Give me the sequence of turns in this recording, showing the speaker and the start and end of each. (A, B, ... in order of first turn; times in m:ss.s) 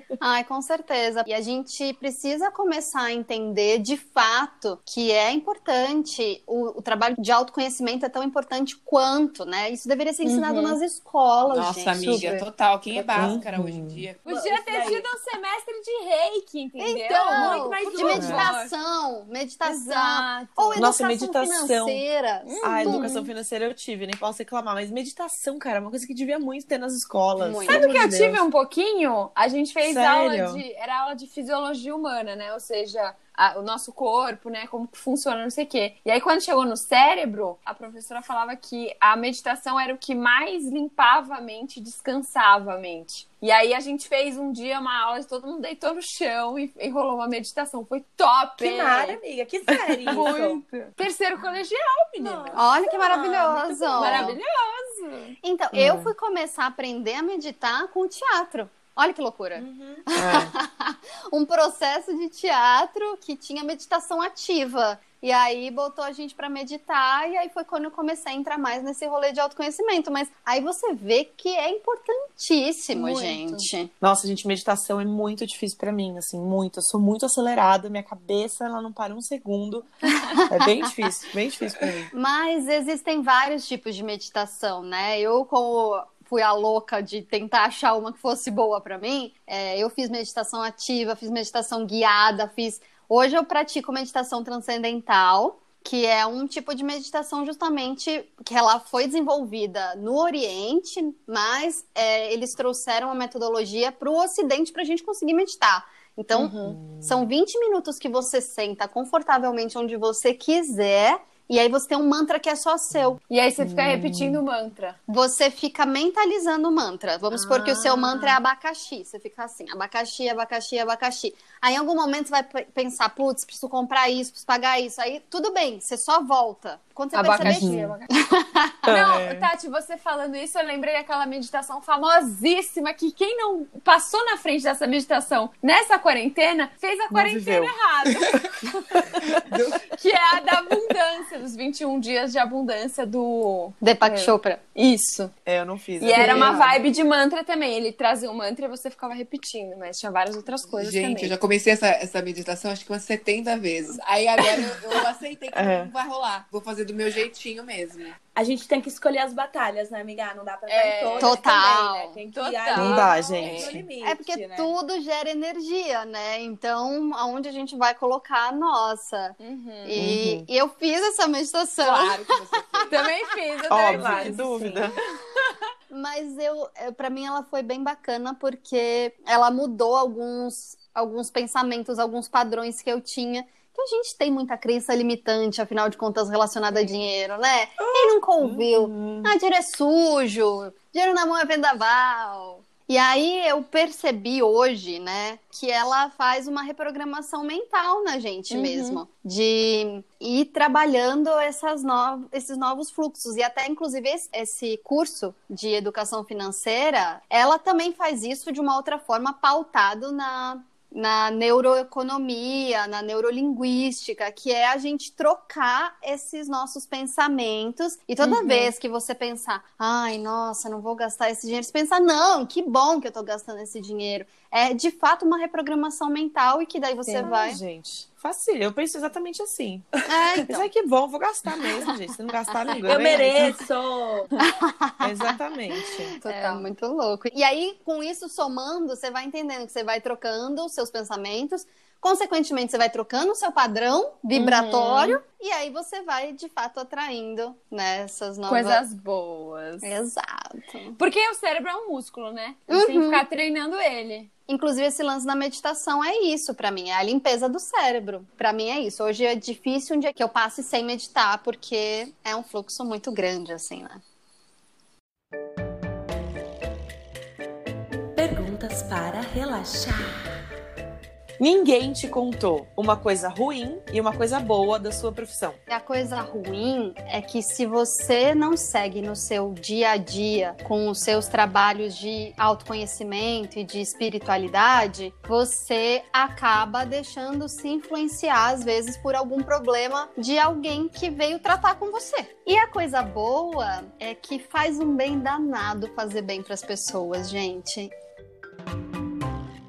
0:00.2-0:12.3 A
0:10.2-0:10.8 B
0:11.5-0:14.2 C
0:12.0-0:12.4 B
0:12.9-0:13.4 D
0:13.2-0:14.0 E
0:14.2-0:18.7 B
0:14.2-0:15.1 D
0:16.8-0:23.1 A
0:17.3-0:18.5 D
0:18.2-0:18.5 E
0:19.6-0:20.9 B
0:20.7-0:22.0 E
0:22.4-0:23.3 B
0:22.6-0:28.4 E
0:27.4-0:27.9 A
0:27.7-0:49.2 B
0:29.8-0:30.6 E
0:48.6-0:50.6 D
0:50.0-0:50.3 E
0:50.0-0:55.3 B
0:52.2-0:54.3 D
0:52.6-0:54.4 A
0:55.4-1:13.9 A
0:55.7-0:56.1 E
0:59.5-1:00.0 D
1:00.1-1:00.5 E
1:12.9-1:13.6 B
1:14.0-1:22.1 E
1:20.3-1:20.9 A
1:22.1-1:53.2 A
1:46.3-1:46.8 B
1:46.7-1:47.2 E
1:53.3-1:55.0 B
1:53.6-1:54.4 E
1:55.1-2:08.7 A
1:57.3-1:58.4 B
2:07.1-2:08.1 B
2:07.4-2:08.0 E
2:08.8-2:25.3 B
2:08.9-2:09.5 E
2:17.1-2:18.4 E
2:19.0-2:19.3 E
2:19.5-2:19.9 C
2:23.8-2:24.6 A
2:25.4-2:26.7 E
2:26.0-2:31.3 B
2:26.1-2:26.7 A
2:30.8-2:38.2 C
2:35.5-2:35.9 E
2:38.3-2:44.7 D
2:40.7-2:41.4 B
2:41.2-2:42.2 A
2:42.3-2:43.3 B
2:42.7-2:43.8 E
2:43.4-2:43.8 C
2:44.0-2:53.0 A
2:49.4-2:50.1 B
2:50.0-2:50.5 E
2:51.8-2:53.1 C
2:52.9-2:54.4 B
2:53.7-2:54.8 D
2:53.7-2:54.9 E
2:55.9-3:47.6 A
3:06.7-3:07.0 B
3:07.8-3:09.3 E
3:18.5-3:19.0 B
3:38.2-3:38.7 B
3:47.1-3:47.3 B
3:47.2-3:53.6 E
3:50.1-3:50.7 A
3:52.8-3:54.3 D
3:52.9-3:53.3 A
3:54.4-3:55.3 A
3:55.0-3:56.2 E
3:56.2-4:08.8 A
3:56.2-3:56.7 B
4:04.3-4:05.2 B
4:08.5-4:09.9 B
4:09.8-4:11.0 A
4:11.0-4:14.3 B
4:12.7-4:13.2 A
4:14.5-4:24.0 A
4:28.2-4:30.3 D
4:31.4-4:35.6 E
4:35.7-4:57.9 A